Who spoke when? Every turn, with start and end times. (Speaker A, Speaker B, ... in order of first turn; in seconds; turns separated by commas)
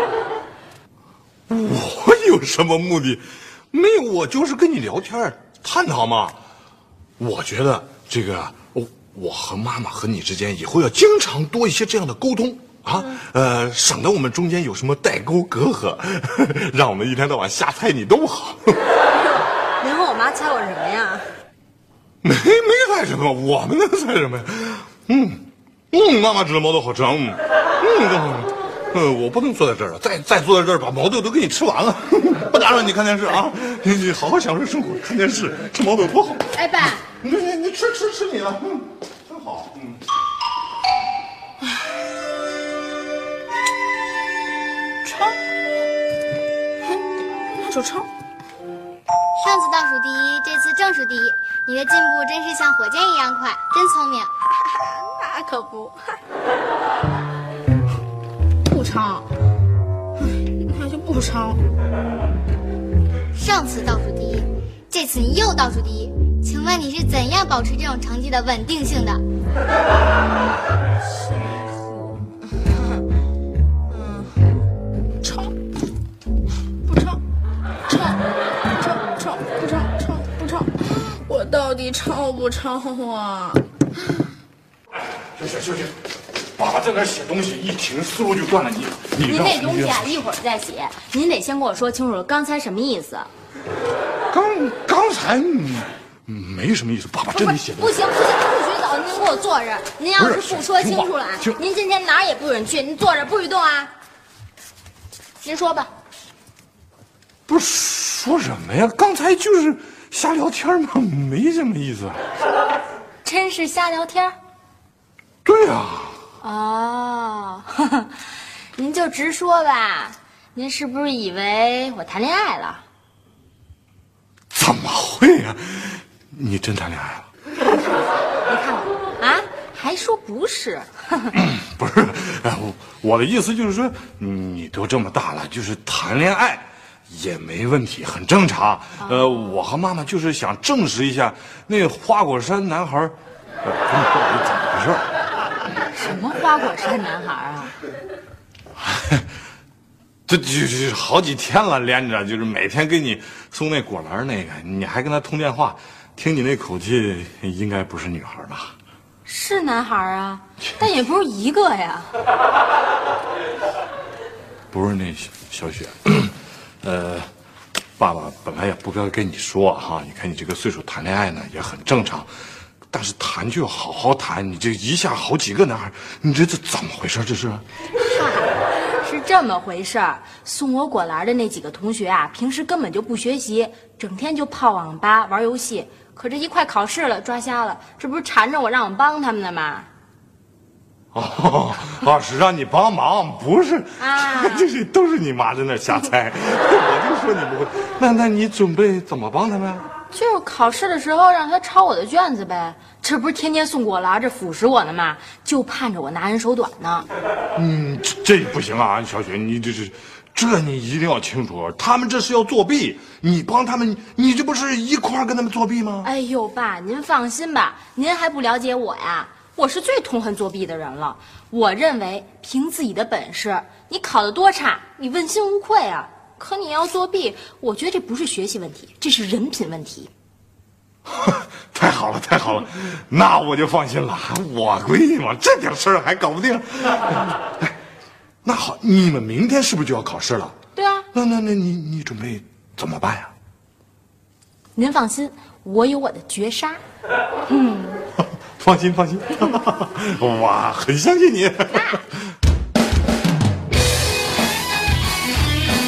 Speaker A: 1.5-6.4, Speaker A: 7.2-18.8, Speaker B: 19.1-21.3, Speaker A: 22.2-36.5, Speaker B: 36.5-37.0, Speaker A: 37.1-40.0, Speaker C: 45.0-45.4, Speaker C: 47.5-48.1, Speaker D: 49.4-54.3, Speaker C: 54.6-56.0, Speaker C: 58.7-59.3, Speaker C: 60.3-61.6, Speaker D: 63.4-69.2, Speaker C: 71.2-72.2, Speaker C: 73.9-74.4, Speaker C: 75.2-75.5, Speaker C: 76.8-77.2, Speaker C: 77.9-78.2, Speaker C: 78.7-83.6, Speaker A: 85.2-86.0, Speaker A: 86.5-90.1, Speaker B: 89.2-93.3, Speaker A: 94.3-98.0, Speaker B: 97.3-103.9, Speaker A: 100.2-101.6, Speaker B: 105.4-105.9, Speaker A: 107.5-112.2, Speaker B: 113.2-114.4, Speaker A: 115.4-116.2, Speaker B: 116.4-118.1, Speaker B: 118.8-122.8, Speaker A: 124.5-127.3, Speaker B: 128.5-131.3, Speaker A: 131.4-145.1, Speaker B: 139.0-139.6, Speaker B: 145.9-147.7, Speaker A: 148.8-149.3, Speaker A: 150.3-158.7, Speaker B: 159.3-162.1, Speaker A: 164.7-167.3, Speaker A: 168.0-172.3, Speaker A: 172.9-177.6, Speaker B: 178.0-189.9, Speaker A: 191.1-199.9, Speaker B: 194.0-194.7, Speaker B: 200.1-207.1, Speaker A: 207.6-216.1, Speaker B: 216.0-230.1, Speaker A: 231.1-237.7, Speaker A: 238.4-240.6, Speaker B: 240.8-241.1, Speaker A: 241.1-243.3, Speaker B: 244.8-246.8, Speaker B: 247.5-248.0, Speaker A: 248.6-252.0